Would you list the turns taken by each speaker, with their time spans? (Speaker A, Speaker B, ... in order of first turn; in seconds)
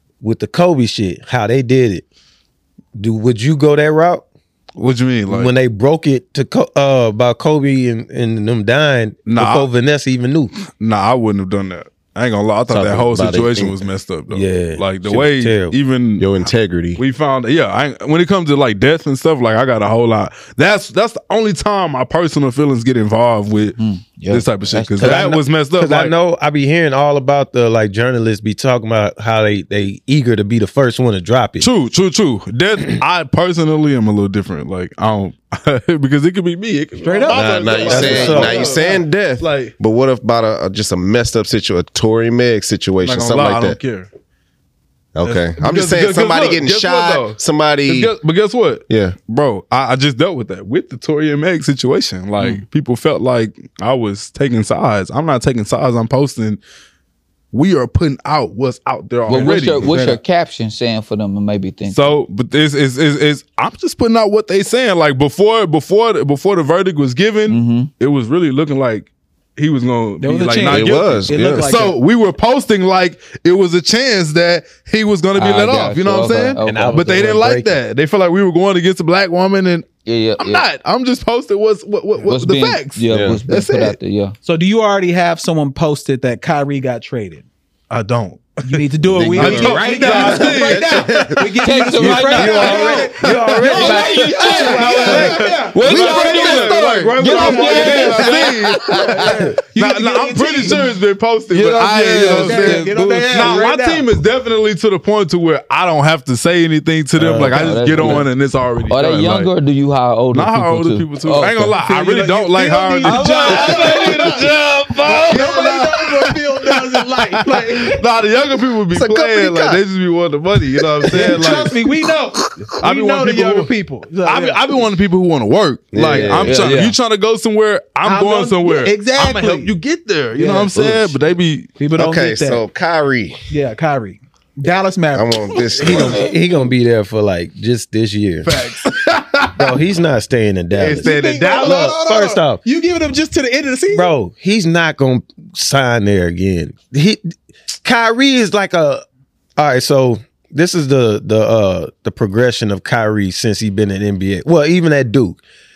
Speaker A: 0.2-2.0, 3.0-4.2, 5.3-10.5, 14.3-15.8, 25.0-31.7, 37.8-38.6, 76.6-77.8, 92.3-98.4, 99.1-99.5, 107.2-108.2, 135.8-138.5, 139.6-142.6, 143.9-149.0, 149.6-155.4
Speaker B: 4.8-5.5, 9.2-9.7, 10.7-23.8, 24.3-26.1, 31.6-39.7, 43.0-44.1, 45.2-56.6, 57.5-60.0, 61.9-84.0, 87.9-91.3, 91.9-109.5, 110.3-121.7, 122.7-123.7, 124.2-131.7, 138.4-139.8, 140.7-142.0
Speaker C: 12.7-13.8, 16.2-17.0, 37.3-43.8, 45.1-48.1, 48.9-49.1, 70.6-71.7, 83.1-83.4, 89.1-91.5, 92.4-93.0, 95.9-99.2, 118.9-119.8, 120.8-121.6, 125.9-126.8, 131.9-133.4, 135.1-136.3
Speaker D: 23.8-25.3, 59.3-62.1, 67.5-67.9, 75.3-77.1, 80.0-80.6, 82.2-84.3, 89.5-90.4, 91.6-98.7, 101.5-103.7, 107.5-108.3, 108.9-111.8, 113.0-115.7, 126.2-127.0
Speaker E: 37.0-38.7, 59.3-60.2, 70.2-72.0, 84.4-87.5, 88.6-96.5, 99.2-100.8, 102.2-104.1, 111.8-114.5, 115.0-118.0, 121.1-124.7, 128.0-129.7, 130.3-131.1, 131.8-132.6, 133.5-135.9, 140.8-144.1